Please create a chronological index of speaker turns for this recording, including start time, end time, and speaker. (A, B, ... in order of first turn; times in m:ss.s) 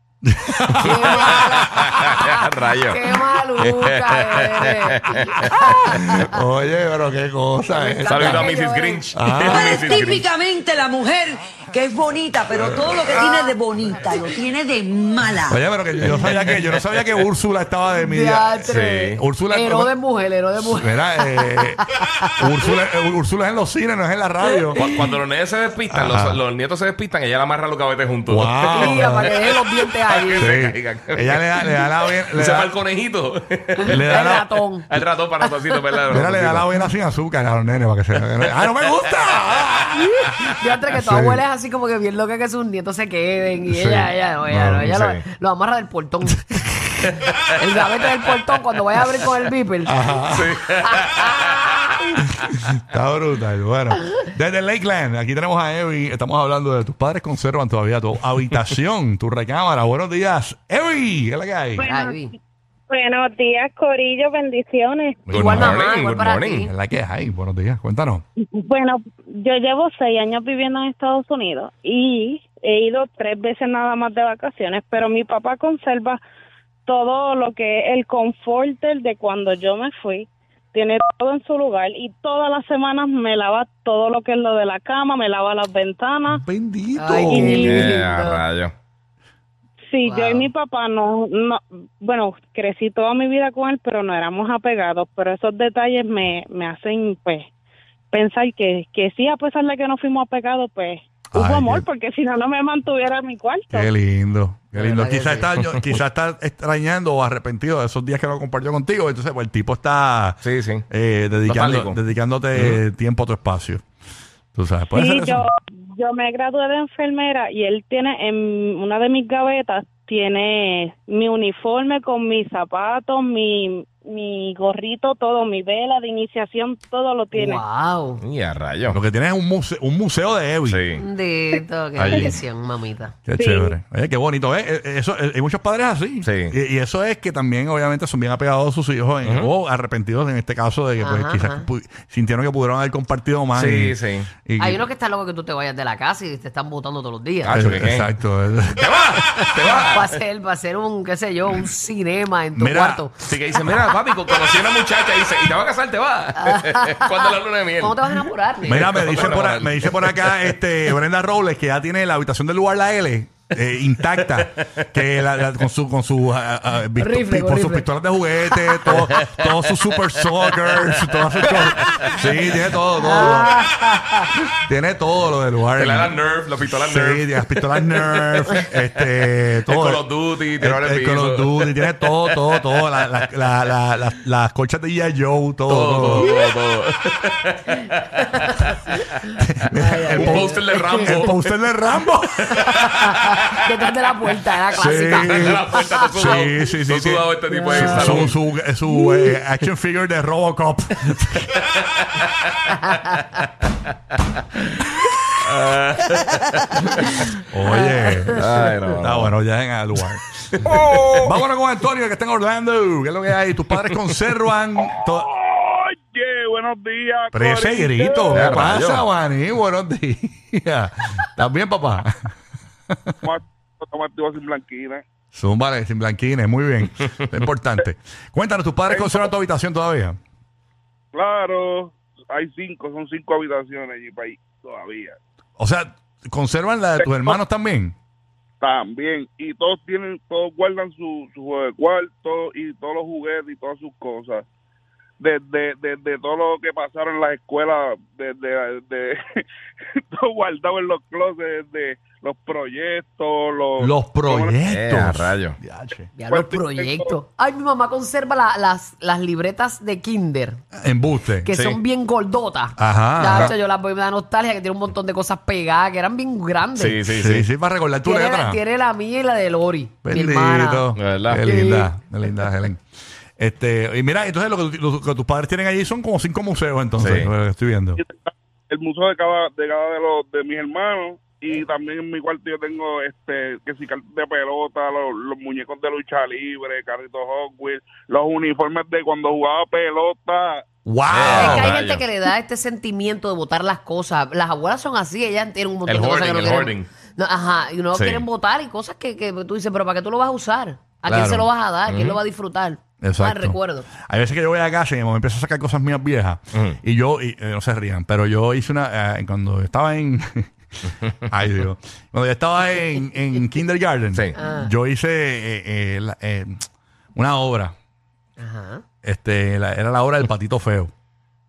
0:00.2-0:02.4 A
0:00.8-0:06.3 B
0:01.7-0:05.8 C
0:05.6-0:08.5 A
0:07.7-0:09.1 B
0:08.0-0:10.3 C
0:09.1-0:09.7 A
0:09.4-0:15.6 D
0:13.2-0:13.5 A
0:15.5-0:19.9 A
0:16.0-0:17.2 C
0:18.0-0:22.3 B
0:18.7-0:19.2 C
0:20.6-0:21.8 A
0:22.4-0:25.1 A
0:24.8-0:34.1 C
0:25.9-0:26.4 A
0:28.3-0:29.3 A
0:28.7-0:30.5 B
0:30.4-0:32.7 A
0:33.8-0:34.9 B
0:33.8-0:34.6 A
0:34.9-0:36.7 C
0:36.1-0:40.1 A
0:38.4-0:39.4 C
0:40.2-0:46.7 B
0:40.9-0:41.4 A
0:43.7-0:44.9 A
0:44.8-0:45.2 C
0:47.5-0:50.2 B
0:49.8-0:50.5 A
0:50.3-0:51.8 C
0:50.9-0:51.9 B
0:52.4-1:01.9 A
1:01.8-1:02.2 E
1:01.8-1:02.3 B
1:02.9-1:05.2 E
1:05.3-1:05.7 A
1:05.3-1:06.7 B
1:05.3-1:06.7 C
1:06.6-1:08.2 A
1:08.6-1:16.2 E
1:16.9-1:26.4 E
1:26.3-1:27.7 A
1:27.0-1:28.4 B
1:27.2-1:27.8 E
1:27.6-1:28.7 C
1:29.9-1:37.5 E
1:30.0-1:30.5 B
1:38.1-1:43.9 E
1:41.3-1:41.8 A
1:43.7-1:53.8 A
1:44.8-1:45.5 B
1:50.4-1:50.8 C
1:51.5-1:52.0 C
1:52.5-1:52.8 C
1:54.5-1:55.4 A
1:54.9-2:07.6 E
2:07.3-2:08.2 B
2:08.2-2:09.0 C
2:08.9-2:10.8 A
2:10.6-2:11.0 C
2:11.0-2:13.2 B
2:12.0-2:12.4 C
2:13.2-2:24.8 A
2:13.3-2:13.7 E
2:16.2-2:16.5 C
2:19.2-2:19.5 C
2:21.0-2:21.7 B
2:23.5-2:24.3 C
2:24.6-2:27.6 B
2:27.4-2:28.1 C
2:27.5-2:29.2 A
2:28.7-2:30.2 C
2:29.7-2:33.2 B
2:32.6-2:33.0 A
2:33.2-2:40.6 C
2:33.6-2:33.9 A
2:36.4-2:39.4 B
2:38.6-2:53.6 A
2:44.2-2:44.8 C
2:47.0-2:47.9 B
2:48.9-2:50.0 C
2:50.6-2:50.9 C
2:51.6-2:52.5 C
2:52.9-2:54.3 B
2:54.5-3:00.0 A
2:55.8-3:02.7 C
3:00.6-3:06.3 A
3:05.7-3:08.7 C
3:06.0-3:06.5 B
3:09.4-3:12.7 A
3:09.7-3:11.3 B
3:10.1-3:11.4 C
3:12.5-3:16.6 B
3:12.6-3:13.1 C
3:14.7-3:21.6 A
3:14.8-3:18.4 C
3:17.5-3:18.3 B
3:18.9-3:19.4 B
3:21.7-3:23.2 C
3:25.4-3:27.3 C
3:27.4-3:35.3 A
3:27.7-3:28.4 B
3:28.4-3:29.3 C
3:30.6-3:31.2 F
3:34.8-3:38.6 F
3:37.3-3:42.2 A
3:38.3-3:39.1 C
3:43.2-3:45.0 F
3:45.3-3:50.2 A
3:48.9-3:49.3 F
3:51.1-3:55.2 F
3:55.6-3:57.9 A
3:57.0-3:57.4 F
3:58.6-4:04.4 F
4:05.2-4:09.2 F
4:10.1-4:14.6 F
4:13.8-4:16.1 A
4:14.7-4:15.6 C
4:16.2-4:20.6 B
4:16.3-4:17.2 F
4:20.7-4:21.5 A
4:21.4-4:27.0 B
4:21.5-4:21.8 C
4:22.8-4:23.5 A
4:26.7-4:27.5 C
4:27.1-4:28.6 A
4:28.0-4:30.9 B
4:30.0-4:32.8 A
4:30.9-4:31.4 C
4:31.4-4:31.9 B
4:33.4-4:38.0 A
4:37.0-4:37.3 C
4:38.0-4:50.6 F
4:50.8-4:51.7 A
4:51.1-4:52.0 C
4:51.3-5:03.9 B
4:55.8-4:56.9 C
4:57.9-4:58.2 C
5:01.1-5:01.5 A
5:01.8-5:02.2 C
5:03.0-5:16.6 A
5:14.3-5:14.7 B
5:17.2-5:17.7 A
5:18.4-5:18.8 B
5:19.0-5:20.9 A